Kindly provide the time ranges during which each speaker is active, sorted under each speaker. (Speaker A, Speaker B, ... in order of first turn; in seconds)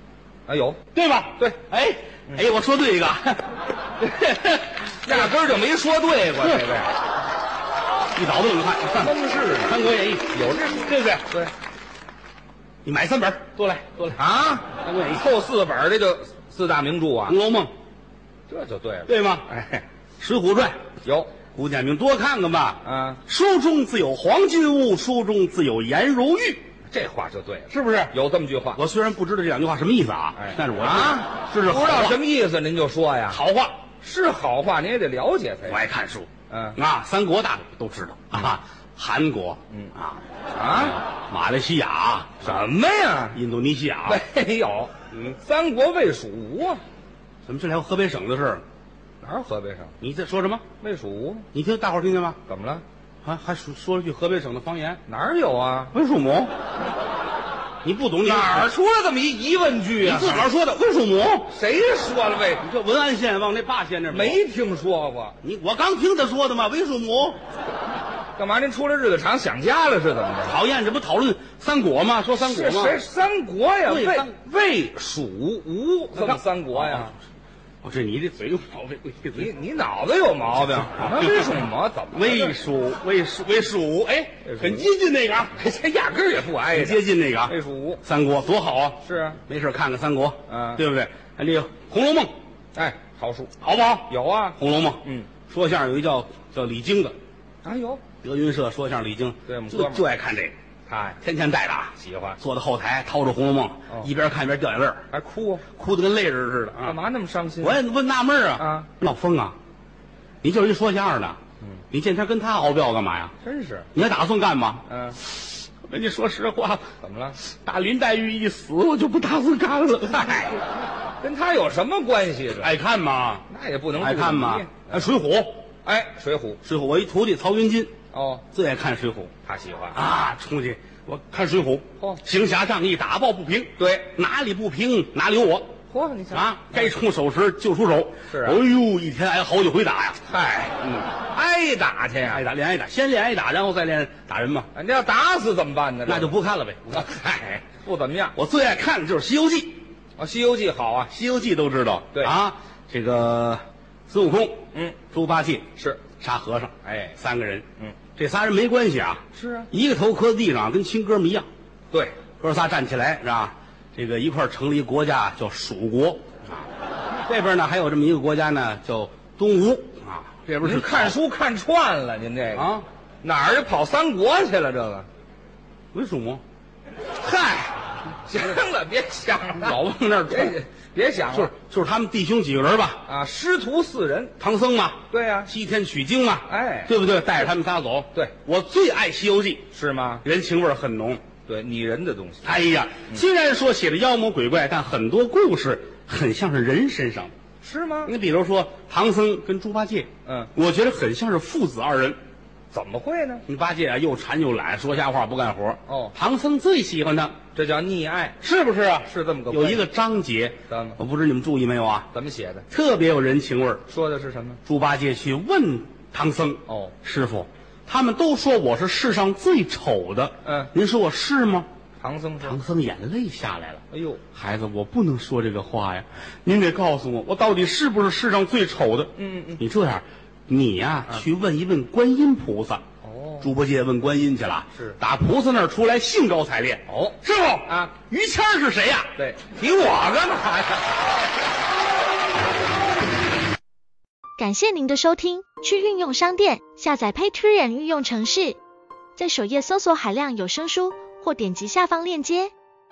Speaker A: 0.5-0.8, 4.0-6.9, 9.0-11.5, 14.2-17.4, 18.5-19.8, 21.0-21.3, 22.8-23.2, 26.9-28.8, 30.4-33.4, 34.0-35.8, 36.5-36.8, 40.5-41.0, 42.4-43.4, 44.1-46.8, 49.2-49.9, 50.8-51.5, 52.5-52.8, 55.1-55.9, 58.2-60.5, 61.5-62.6, 64.1-65.4, 68.4-70.6, 72.4-77.1, 79.3-82.6, 84.4-84.9, 85.5-88.0, 89.0-89.4, 90.5-90.8, 92.7-93.5, 94.1-95.3, 97.6-98.0, 99.5-100.0, 100.9-101.2, 102.0-102.4, 105.1-105.6, 106.8-107.8, 108.6-108.9, 113.4-113.9, 114.9-115.2, 117.0-117.4, 121.2-122.7, 123.5-125.1, 125.8-126.6, 128.1-128.4, 129.4-130.0, 133.8-134.1, 135.9-136.9, 138.3-138.6, 140.3-142.5, 144.7-146.4, 146.9-148.3, 150.2-151.1, 155.8-156.0, 156.8-157.2, 159.3-159.7, 170.6-175.1, 177.2-181.5, 183.1-184.3, 185.1-185.5, 186.5-186.9, 189.7-190.2, 191.5-193.2, 197.6-198.1, 200.2-200.5, 202.7-203.4, 205.9-206.1, 207.5-208.4, 209.1-209.9, 210.7-211.0, 212.1-212.7, 213.9-214.6, 216.7-216.9, 220.4-220.7, 222.0-222.6, 223.9-224.2, 229.2-229.6, 233.0-233.5, 236.9-237.9, 239.2-241.0
Speaker B: 0.9-3.5, 5.0-5.3, 6.4-6.7, 8.1-10.3, 10.9-11.2, 12.8-15.3, 17.3-17.7, 19.1-19.5, 20.2-20.8, 21.5-26.6, 27.7-28.1, 28.8-32.2, 33.3-33.8, 35.7-40.2, 40.7-42.7, 43.3-44.2, 45.1-45.4, 47.5-48.6, 50.0-50.6, 51.5-52.4, 53.2-55.0, 55.9-56.5, 57.8-58.7, 60.0-61.5, 62.6-64.4, 65.4-67.4, 70.4-73.0, 73.8-74.3, 76.1-77.1, 77.8-79.5, 80.6-85.5, 86.7-92.3, 93.6-97.2, 98.2-100.5, 101.2-105.0, 105.7-107.0, 107.6-109.5, 110.4-111.4, 111.9-113.3, 113.9-116.8, 117.4-120.6, 122.5-123.4, 124.0-125.6, 126.6-127.9, 128.5-129.3, 129.9-135.7, 136.3-140.3, 140.8-141.1, 142.3-144.7, 146.0-147.2, 148.3-149.8, 151.1-155.7, 156.2-161.5, 162.4-166.7, 167.3-171.2, 172.5-172.8, 175.9-176.4, 179.5-180.6, 181.3-183.0, 184.4-189.7, 190.2-191.2, 192.4-197.3, 198.0-202.2, 203.4-207.3, 208.4-212.1, 212.7-213.8, 214.6-221.7, 222.4-223.8, 224.3-232.8, 233.4-239.1
Speaker C: 244.4-248.6, 249.2-252.5